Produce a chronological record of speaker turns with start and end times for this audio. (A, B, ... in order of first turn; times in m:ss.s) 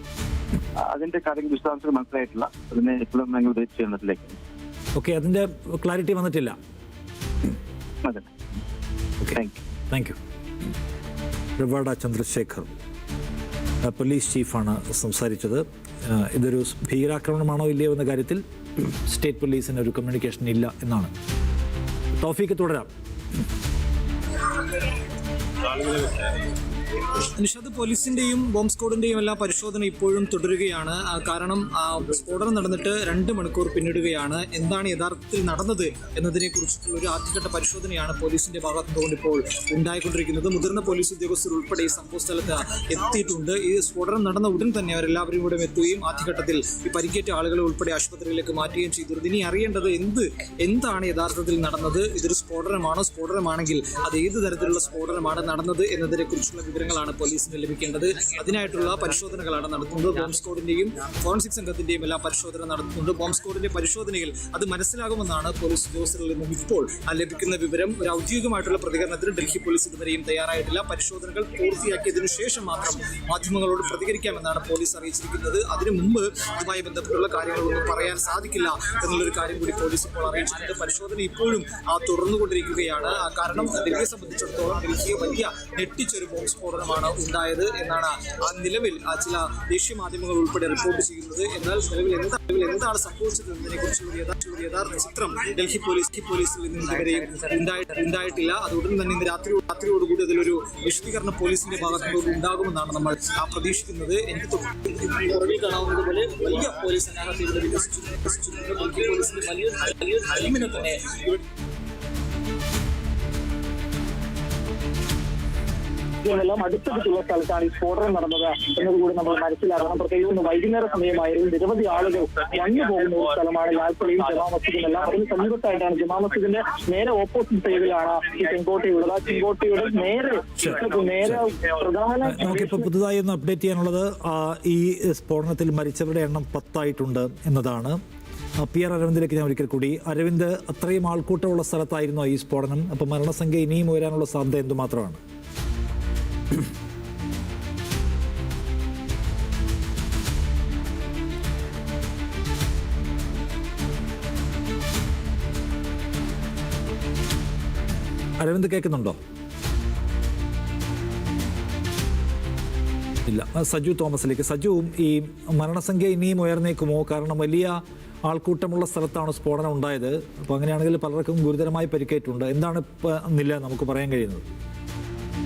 0:00.9-0:04.4 A
0:05.0-0:06.6 B
0:09.3-0:09.6 A
0:09.9-0:10.2 B
0:11.6-0:12.7 B
0:13.8-0:21.1 B
0:22.2-0:22.9 B
0:25.6-0:26.5 C
0:27.0-1:51.4 C
1:56.2-2:12.9 D
2:12.2-2:18.0 B
2:18.6-2:25.2 B
2:38.4-2:39.2 B
2:43.3-2:54.4 B